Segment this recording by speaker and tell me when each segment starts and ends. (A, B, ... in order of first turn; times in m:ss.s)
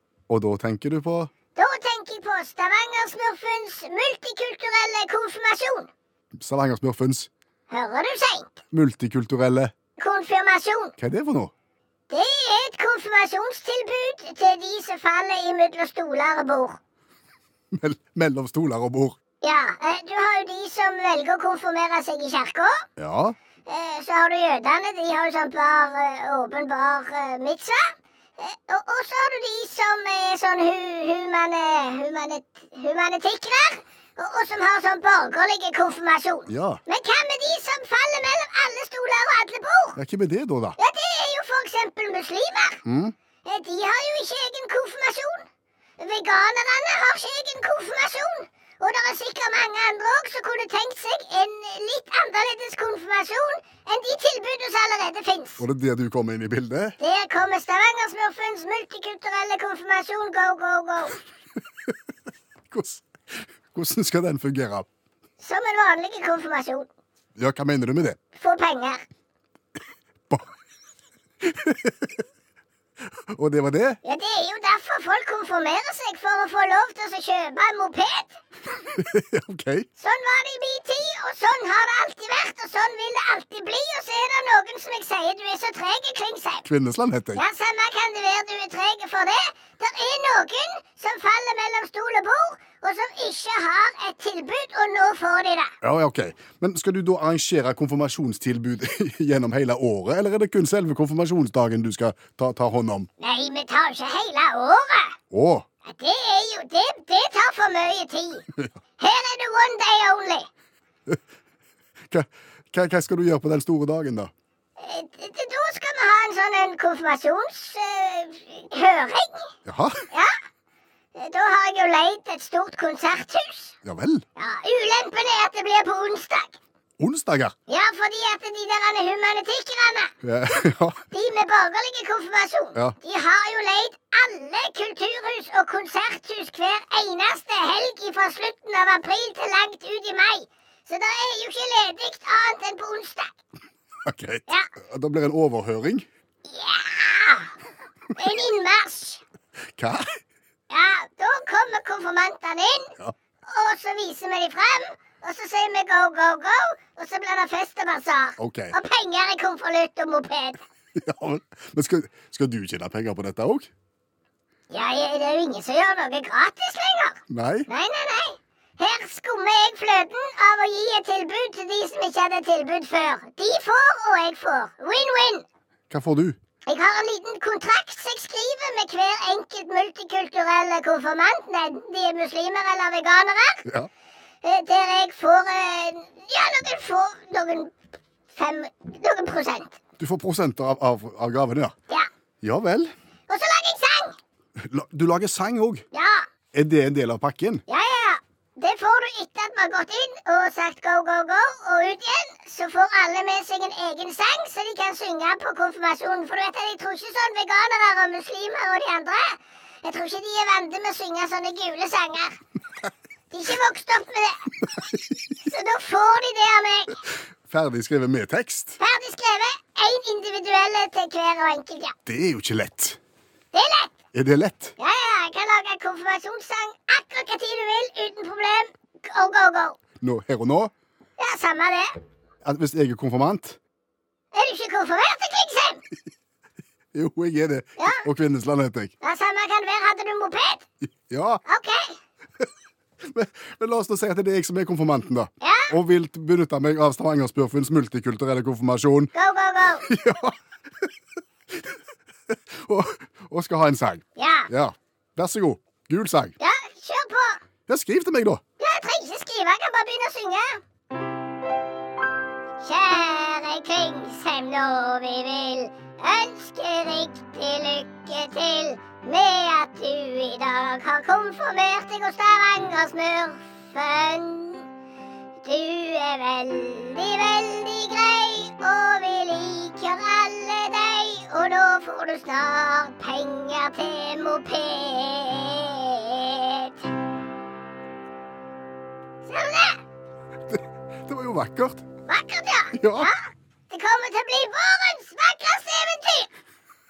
0:00.3-0:01.3 A
0:01.5-0:05.9 B
0:06.3-0:07.3 A
0:07.7-0:08.6 B
0:08.7-0:09.7 A
0:10.0-0:10.9 B
0:11.0-0:11.5 A
0:12.1-0:16.8 B
0:17.7-0:19.2 A
0:19.4-0:22.8 B
0:23.0-0:23.4 A
0:23.6-0:40.0 B
0:36.5-0:36.8 A
0:40.0-0:40.8 A
0:40.8-0:42.8 B
0:42.8-0:43.1 A
0:43.4-0:45.5 B
0:46.0-0:55.6 B
0:55.6-0:57.0 A
0:57.0-1:01.2 B
1:02.7-1:04.9 A
1:05.4-1:06.9 B
1:07.4-1:08.2 A
1:08.3-1:09.0 B
1:11.4-1:12.1 A
1:13.3-1:14.0 A
1:14.0-1:18.4 B
1:18.9-1:19.9 A
1:20.0-1:26.6 B
1:26.6-1:27.4 A
1:27.3-1:35.7 B
1:35.8-1:43.1 A
1:43.2-1:45.2 B
1:45.3-1:45.6 A
1:45.8-1:50.5 B
1:52.1-1:54.3 A
1:54.8-1:59.5 B
1:59.6-2:00.0 A
2:01.1-2:03.7 B
2:03.8-2:04.2 A
2:04.4-2:06.6 B
2:07.0-2:07.5 A
2:07.7-2:10.1 B
2:10.2-2:11.0 A
2:11.1-2:23.4 B
2:24.0-2:26.0 A
2:26.4-2:27.5 B
2:28.1-2:29.2 B
2:29.8-2:30.1 A
2:30.7-2:40.6 B
2:38.4-2:38.8 A
2:41.0-2:43.7 A
2:44.7-2:55.4 B
2:47.3-2:47.7 A
2:55.9-2:56.4 A
2:56.6-3:03.6 B
3:04.4-3:07.7 B
3:08.3-3:09.8 B
3:10.0-3:11.7 A
3:12.4-3:12.9 A
3:13.3-3:14.2 B
3:14.6-3:15.8 A
3:15.9-3:16.3 B
3:16.5-3:17.6 A
3:17.7-3:32.4 B
3:33.3-3:34.6 B
3:35.4-3:37.0 B
3:37.4-3:38.8 A
3:38.8-3:41.9 B
3:42.0-3:43.0 A
3:43.5-3:44.0 B
3:44.1-3:44.7 A
3:44.8-3:49.8 B
3:50.0-3:50.7 A
3:51.2-3:51.9 B
3:52.4-3:53.6 A
3:54.3-3:55.8 B
3:56.9-3:58.9 A
3:57.8-3:58.0 B
3:59.0-4:00.6 B
4:01.1-4:01.4 A
4:01.4-4:02.0 B
4:03.0-4:09.1 A
4:05.4-4:05.7 B
4:09.1-4:09.9 B
4:09.8-4:10.3 A
4:12.3-4:16.3 A
4:14.2-4:14.5 B
4:16.4-4:17.4 B
4:17.7-4:18.4 A
4:18.6-4:20.6 B
4:22.6-4:34.7 B
4:35.4-4:46.9 B
4:49.2-4:49.8 B
4:50.5-4:51.8 A
4:52.1-4:56.3 B
4:52.7-4:53.1 A